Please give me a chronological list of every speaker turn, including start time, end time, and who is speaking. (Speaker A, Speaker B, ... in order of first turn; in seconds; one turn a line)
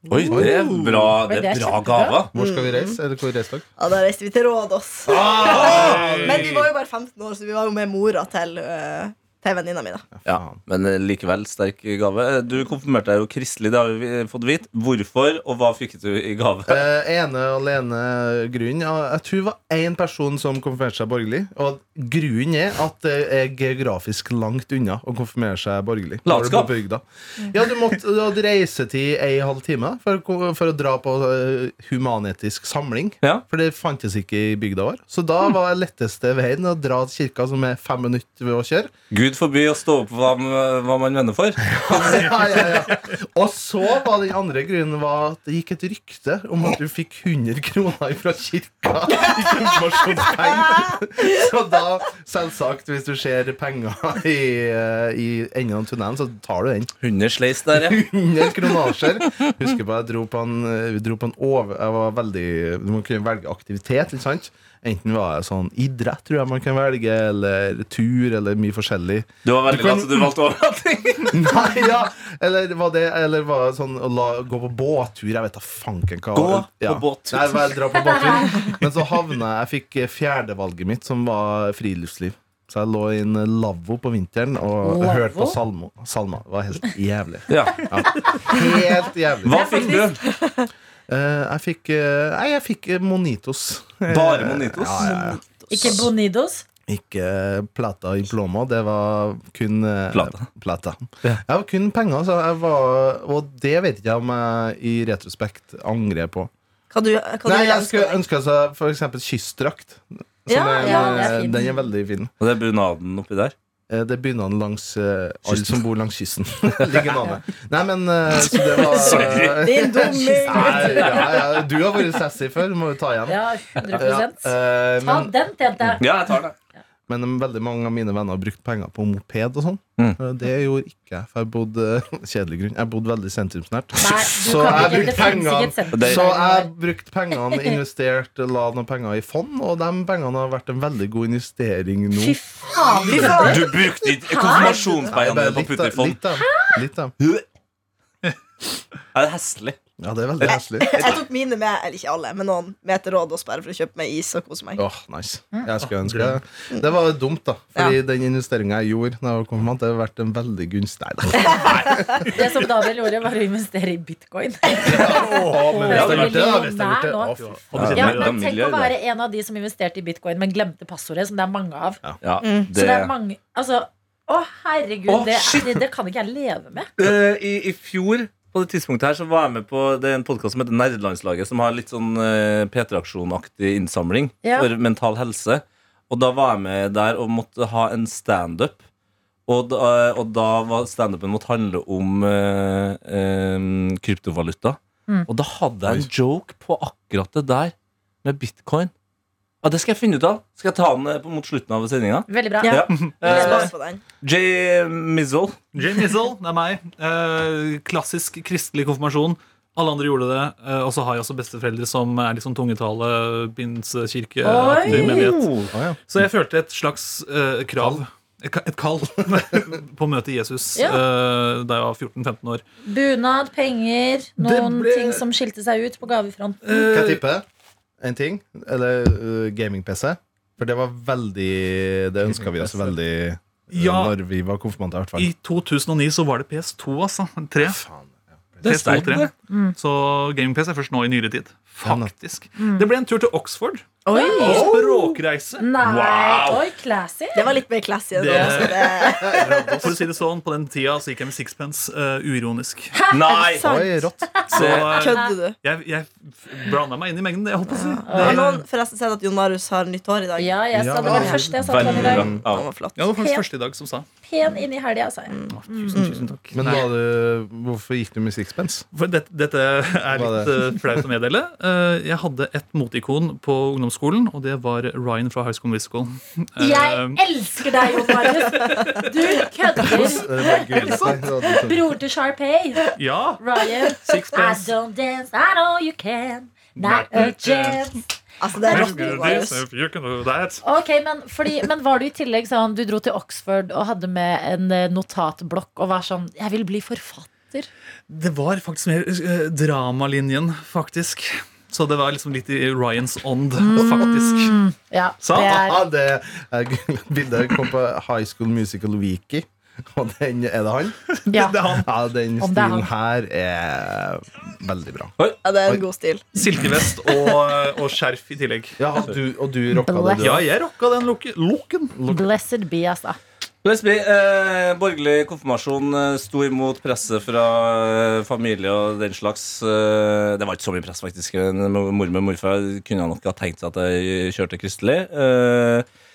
Speaker A: 0.1-2.3
Speaker B: 0.2-0.8
Speaker C: 1.3-2.2
Speaker B: 2.3-3.7
Speaker D: 2.4-3.0
Speaker D: 3.8-10.1
Speaker B: 5.1-6.6
Speaker E: 5.4-6.7
Speaker B: 10.2-10.6
Speaker A: 10.3-16.9
Speaker B: 16.7-38.9
Speaker A: 26.2-26.7
Speaker A: 39.1-42.7
Speaker B: 41.7-56.9
Speaker A: 57.0-58.0
Speaker B: 57.7-70.3
Speaker A: 69.5-71.5
Speaker B: 71.3-89.9
Speaker A: 76.3-77.7
Speaker C: 78.0-78.6
Speaker C: 84.8-85.6
Speaker A: 87.5-88.0
Speaker C: 88.3-88.5
Speaker A: 89.4-90.2
Speaker C: 89.5-90.1
Speaker D: 90.2-90.7
Speaker B: 91.1-96.1
Speaker A: 94.1-95.4
Speaker C: 95.7-96.7
Speaker B: 96.9-106.5
Speaker A: 100.1-100.5
Speaker D: 106.9-108.2
Speaker B: 107.5-112.3
Speaker D: 110.5-111.4
Speaker C: 110.8-111.7
Speaker A: 112.4-113.5
Speaker B: 113.9-125.3
Speaker D: 118.8-121.4
Speaker A: 118.9-119.9
Speaker C: 123.3-126.1
Speaker A: 126.0-126.5
Speaker B: 127.1-143.6
Speaker C: 134.0-136.7
Speaker A: 135.9-136.3
Speaker C: 142.1-143.7
Speaker D: 143.0-143.8
Speaker A: 143.2-146.2
Speaker C: 144.2-144.8
Speaker D: 144.5-144.7
Speaker B: 145.1-147.2
Speaker C: 146.4-146.7
Speaker A: 147.2-147.4
Speaker A: 149.1-149.8
Speaker B: 150.0-151.2
Speaker A: 150.4-151.2
Speaker D: 150.5-154.8
Speaker B: 154.8-162.2
Speaker E: 156.0-156.4
Speaker C: 162.3-172.0
Speaker B: 164.8-168.0
Speaker E: 165.2-166.7
Speaker A: 165.9-166.4
Speaker E: 167.4-168.3
Speaker A: 167.7-168.9
Speaker A: 172.2-173.1
Speaker D: 172.4-172.7
Speaker C: 172.7-176.9
Speaker A: 175.1-175.8
Speaker A: 177.0-188.8
Speaker C: 184.4-184.7
Speaker A: 189.5-198.9
Speaker A: 199.6-205.6
Speaker C: 202.3-203.7
Speaker D: 202.6-204.0
Speaker E: 205.7-222.6
Speaker C: 214.4-215.3
Speaker B: 214.9-216.0
Speaker A: 215.1-215.4
Speaker B: 217.8-218.0
Speaker C: 220.8-221.0
Speaker C: 222.9-226.9
Speaker E: 224.4-225.2
Speaker E: 226.6-227.2
Speaker B: 226.7-227.4
Speaker B: 228.0-235.3
Speaker E: 232.5-232.9
Speaker E: 233.7-234.1
Speaker E: 235.2-237.8
Speaker B: 237.6-238.8
Speaker A: 238.6-239.3
Speaker E: 238.6-245.8
Speaker C: 239.5-239.8
Speaker B: 241.8-242.1
Speaker C: 242.6-242.9
Speaker D: 244.1-244.8
Speaker C: 244.1-244.7
Speaker C: 245.6-247.5
Speaker A: 245.8-246.7
Speaker D: 247.3-249.9
Speaker E: 248.2-253.0
Speaker B: 249.1-250.0
Speaker C: 252.9-253.4
Speaker A: 253.1-253.7
Speaker D: 253.3-255.6
Speaker B: 253.6-254.6
Speaker E: 254.5-258.6
Speaker A: 254.5-255.1
Speaker D: 257.7-263.0
Speaker C: 258.1-258.4
Speaker C: 260.4-262.3
Speaker B: 260.7-262.4
Speaker A: 261.6-262.7
Speaker E: 263.0-264.1
Speaker C: 263.1-263.4
Speaker C: 264.2-265.9
Speaker D: 265.3-266.3
Speaker E: 265.5-266.9
Speaker B: 266.5-268.9
Speaker E: 268.9-277.2
Speaker B: 270.1-270.6
Speaker C: 276.6-282.9
Speaker E: 278.5-279.1
Speaker B: 279.9-281.9
Speaker E: 280.8-281.1
Speaker E: 283.0-283.4
Speaker C: 283.4-288.0
Speaker E: 284.1-284.6
Speaker E: 286.8-287.9
Speaker D: 288.4-289.7
Speaker E: 288.6-290.6
Speaker C: 288.7-289.4
Speaker C: 290.6-297.7
Speaker E: 298.1-304.6
Speaker C: 303.6-305.8
Speaker E: 305.2-305.5
Speaker B: 305.3-311.0
Speaker C: 311.3-311.6
Speaker E: 311.3-311.9
Speaker B: 311.7-315.1
Speaker C: 312.4-312.9
Speaker D: 315.4-316.3
Speaker E: 316.3-318.8
Speaker B: 318.8-320.5
Speaker C: 319.9-320.3
Speaker E: 320.2-321.9
Speaker B: 322.0-322.3
Speaker C: 322.1-323.2
Speaker A: 323.6-335.9